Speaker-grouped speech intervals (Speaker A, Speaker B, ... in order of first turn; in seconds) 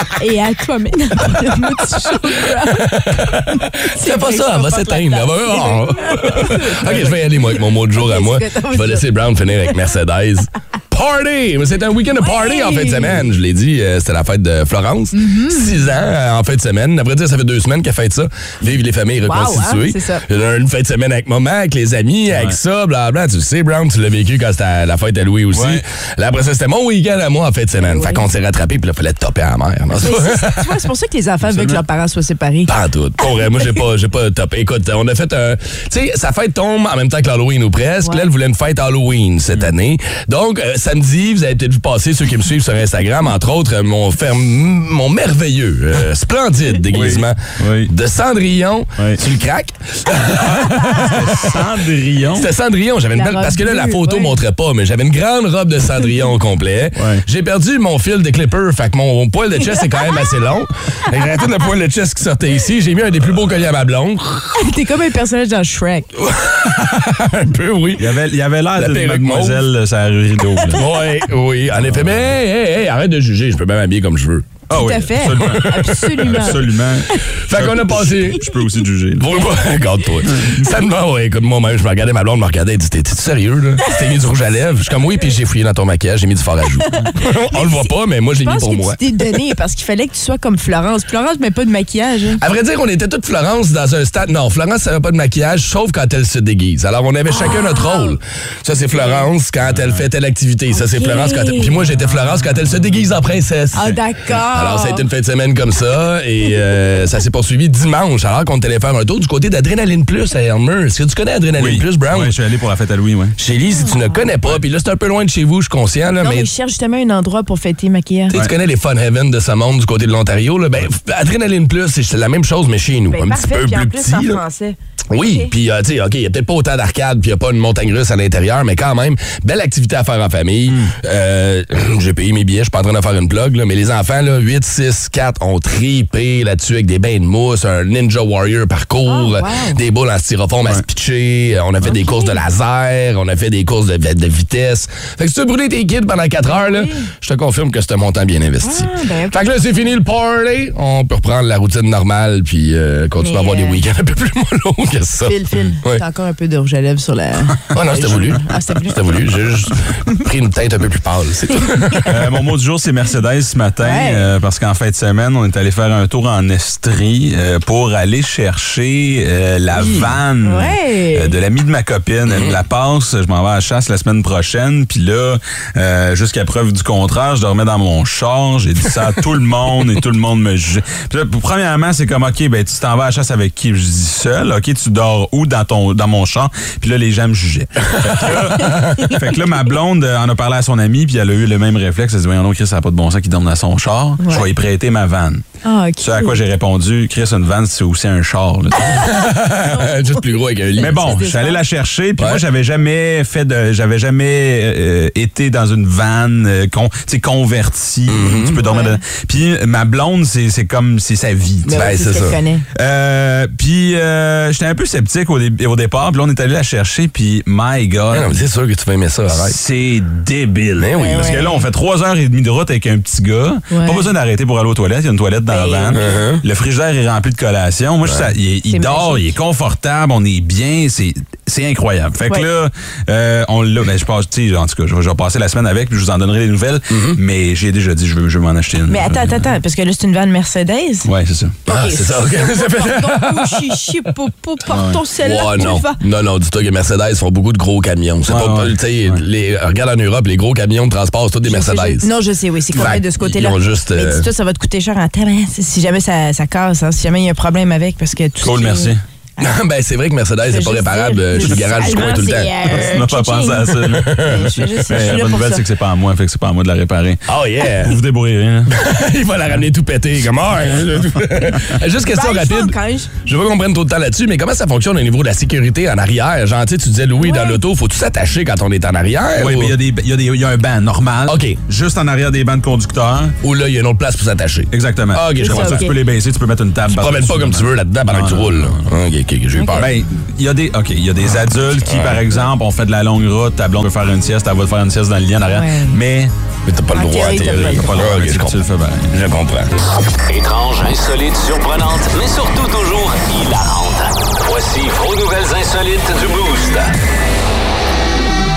Speaker A: 0.2-9.1, 12.2-13.2, 15.1-15.8, 19.2-20.2, 27.8-28.2, 30.0-32.7, 38.0-38.3, 53.1-54.4, 64.6-66.1, 74.7-77.3, 83.8-84.1, 86.8-92.4, 97.3-98.2, 98.9-99.3, 100.7-101.9, 103.7-105.0, 113.7-114.2, 116.2-118.3, 123.1-125.5, 139.1-139.8, 141.8-142.4, 146.5-147.1, 148.6-149.9, 153.2-153.8, 155.2-159.2, 161.6-162.1, 163.8-164.3, 169.8-171.3, 188.7-189.1, 194.2-194.5, 195.7-196.4, 199.0-201.6, 208.6-209.0, 211.7-212.6, 221.0-221.7, 223.7-224.1, 225.5-226.2, 228.7-229.3, 238.9-241.1, 241.7-246.0, 251.5-259.5, 260.4-265.6, 272.1-273.1, 277.2-277.6, 285.4-285.9, 289.6-289.8, 295.5-296.0, 296.9-297.9
Speaker B: 1.9-30.8, 32.7-51.6, 52.3-64.6, 66.2-68.2, 68.8-69.7, 70.7-74.6, 75.4-76.5, 77.5-78.5, 79.2-89.0, 92.4-112.3, 113.4-116.5, 118.3-124.4, 125.1-156.0, 157.7-162.1, 172.3-172.6, 188.2-189.0, 198.9-201.2, 208.1-208.6, 211.7-212.4, 218.1-219.6, 220.8-221.4, 225.9-226.4, 236.9-237.2, 241.7-243.8, 245.2-252.1, 252.7-254.3, 259.4-262.5, 264.0-264.5, 267.3-268.0, 268.7-279.8, 281.3-281.6, 283.4-285.9, 286.9-289.9, 291.8-292.2, 296.6-298.6, 299.1-299.7
Speaker C: 22.3-22.6, 25.5-25.8, 46.9-47.9, 49.0-49.2, 50.6-52.5, 57.0-57.2, 68.0-70.8, 71.9-72.2, 74.7-79.4, 80.3-80.7, 99.7-100.0, 102.0-102.9, 111.6-113.4, 130.7-130.9, 162.1-195.4, 196.0-198.9, 200.8-211.8, 212.8-218.3, 219.3-239.5, 241.1-241.6, 244.7-245.0, 248.3-249.2, 258.4-259.0, 262.7-267.2, 267.8-268.7, 279.4-283.4, 284.7-288.8, 289.8-296.3, 297.3-299.1
Speaker D: 300.3-306.9